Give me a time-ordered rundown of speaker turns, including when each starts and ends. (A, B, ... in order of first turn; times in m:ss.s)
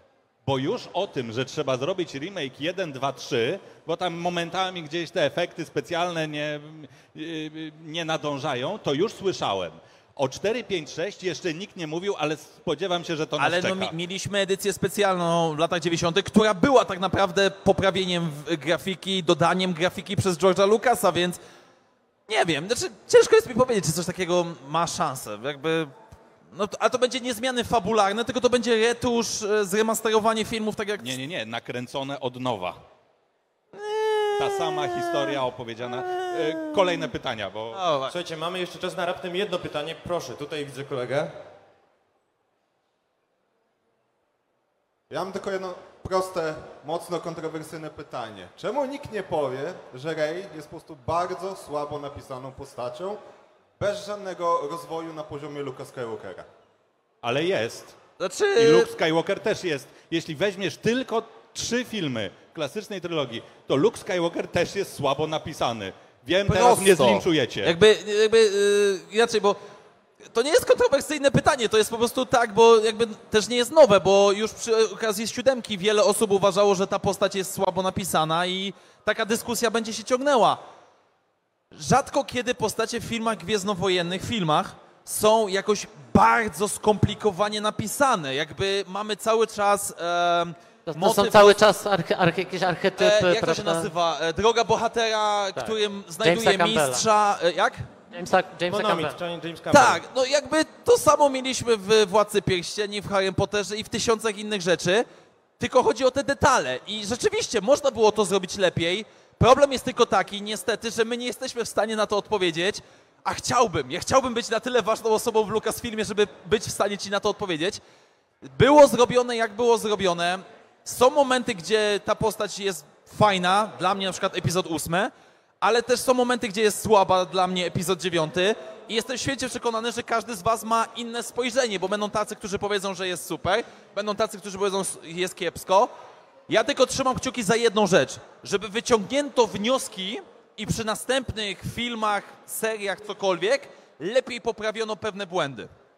0:00.5-0:14.0 A
0:13.4-0:21.4 B
0:22.3-0:25.9 B
0:26.5-0:31.2 B
0:31.0-0:32.8 A
0:33.7-0:37.1 B
0:34.4-0:37.8 A
0:37.7-0:38.2 B
0:38.1-0:41.4 C
0:45.1-0:53.2 D
0:53.8-0:56.5 D
0:57.2-0:58.0 A
0:58.2-0:58.9 B
0:58.6-1:07.8 A
1:06.5-1:09.6 B
1:10.2-1:20.6 B
1:21.7-1:31.6 B
1:30.9-1:33.9 E
1:33.0-1:37.9 B
1:35.6-1:37.0 E
1:38.1-1:39.2 E
1:38.7-1:40.0 C
1:39.7-1:45.1 B
1:45.6-1:57.8 B
1:58.4-2:15.9 B
2:16.5-2:25.7 B